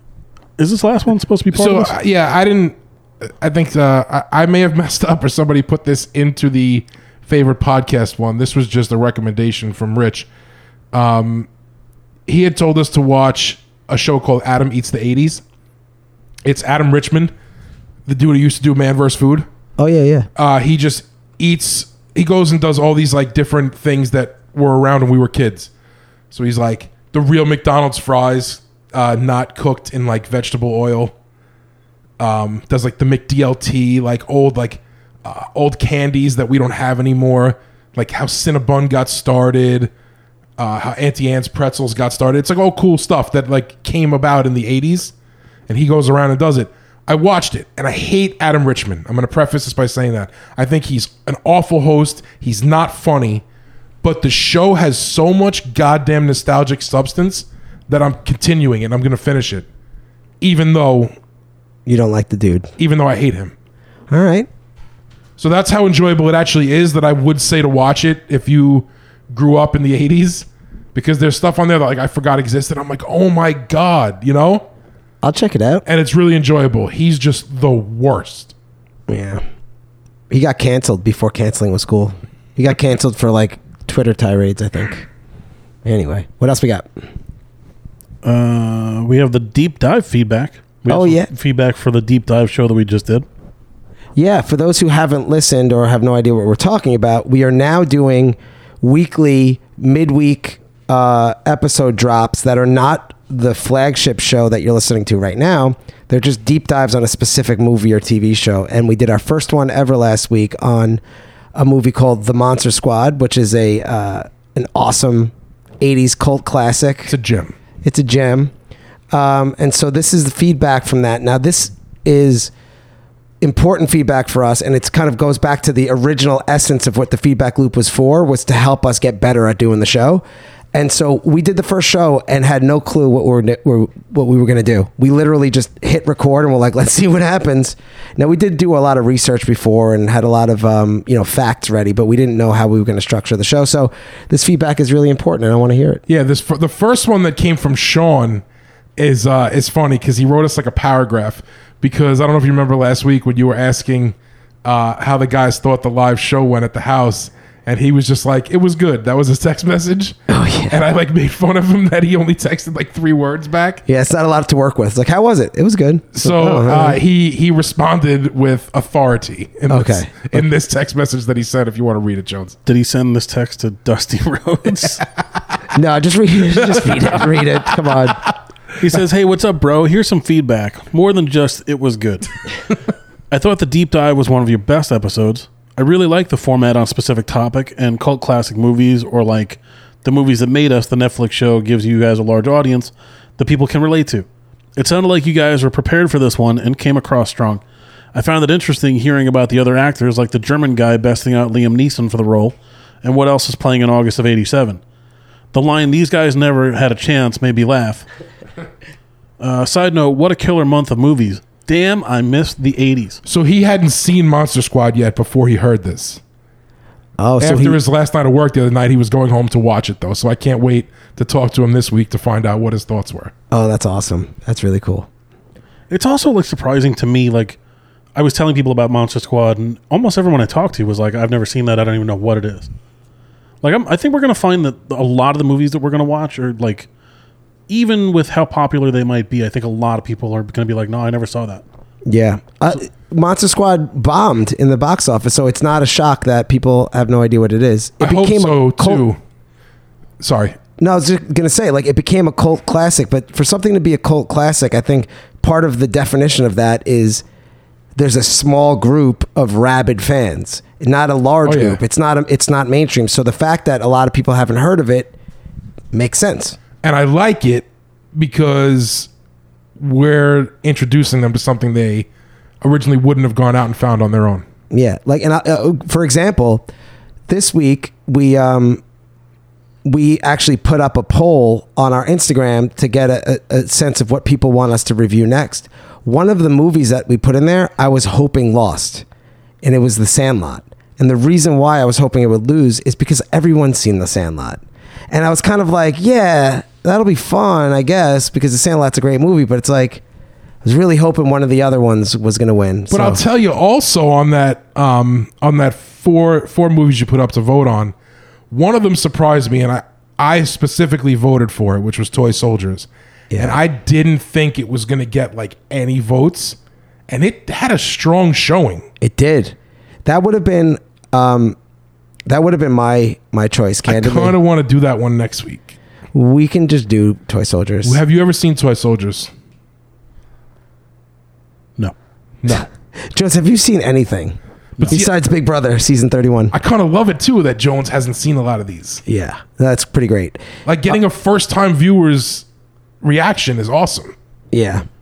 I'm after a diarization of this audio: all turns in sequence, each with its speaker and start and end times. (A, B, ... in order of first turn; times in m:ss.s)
0:00.6-0:01.9 A
0:01.5-0:10.3 B
0:10.9-0:11.5 B
0:12.3-0:15.4 B
0:16.4-0:17.3 B
0:18.1-0:19.5 B
0:19.8-0:20.3 C
0:20.4-0:25.7 B
0:26.3-0:31.1 B
0:32.2-0:39.9 B
0:40.6-0:45.1 B
0:45.7-0:53.4 B
0:54.0-0:59.7 B
1:00.4-1:01.1 B
1:01.9-1:02.7 C
1:02.8-1:03.5 B
1:04.1-1:04.5 C
1:05.4-1:14.7 B
1:15.2-1:15.8 C
1:15.9-1:18.5 B
1:19.1-1:19.4 C
1:20.3-1:25.1 C
1:25.8-1:26.9 C
1:28.2-1:33.3 A
1:30.9-1:31.3 C
1:34.2-1:51.0 C
1:51.6-1:57.1 C
1:57.1-1:57.6 B
1:57.8-1:58.5 C
1:59.1-2:02.5 C
2:03.4-2:26.0 C
2:26.1-2:28.4 B
2:29.0-2:40.2 B
2:40.3-2:40.8 C
2:40.7-2:43.8 B
2:43.9-2:47.0 C
2:46.1-2:52.6 B
2:49.7-2:50.4 C
2:52.7-2:55.1 A
2:55.7-2:58.2 C
2:56.7-2:57.4 B
2:58.8-3:02.4 A
3:03.3-3:17.6 A
3:18.1-3:24.8 A
3:25.5-3:28.1 A
3:29.4-3:33.2 A
3:33.3-3:36.2 B
3:37.2-3:37.8 C
3:37.4-3:43.3 B
3:43.5-3:45.1 C
3:45.9-3:47.6 A
3:48.2-3:52.7 A
3:53.6-3:56.9 A
3:57.7-4:01.6 A
4:02.1-4:09.1 C
4:08.0-4:09.2 B
4:10.2-4:10.6 B
4:10.8-4:17.2 C
4:18.0-4:25.1 C
4:21.4-4:21.8 B
4:25.9-4:26.6 C
4:26.8-4:29.1 B
4:29.8-4:32.1 B
4:32.6-4:34.4 B
4:34.7-4:36.7 C
4:37.3-4:38.8 C
4:39.8-4:49.0 C
4:49.6-5:00.0 C
5:00.6-5:03.2 C
5:02.9-5:07.9 B
5:08.5-5:18.9 B
5:13.3-5:13.6 C
5:19.0-5:21.6 C
5:22.3-5:24.4 C
5:23.9-5:25.8 B
5:26.1-5:28.0 C
5:27.8-5:29.3 B
5:32.5-5:34.4 C
5:34.8-5:35.1 B
5:34.9-5:36.5 C
5:36.5-5:39.0 B
5:39.1-5:41.0 C
5:40.7-5:42.5 B
5:43.0-5:44.2 B
5:44.5-5:44.8 C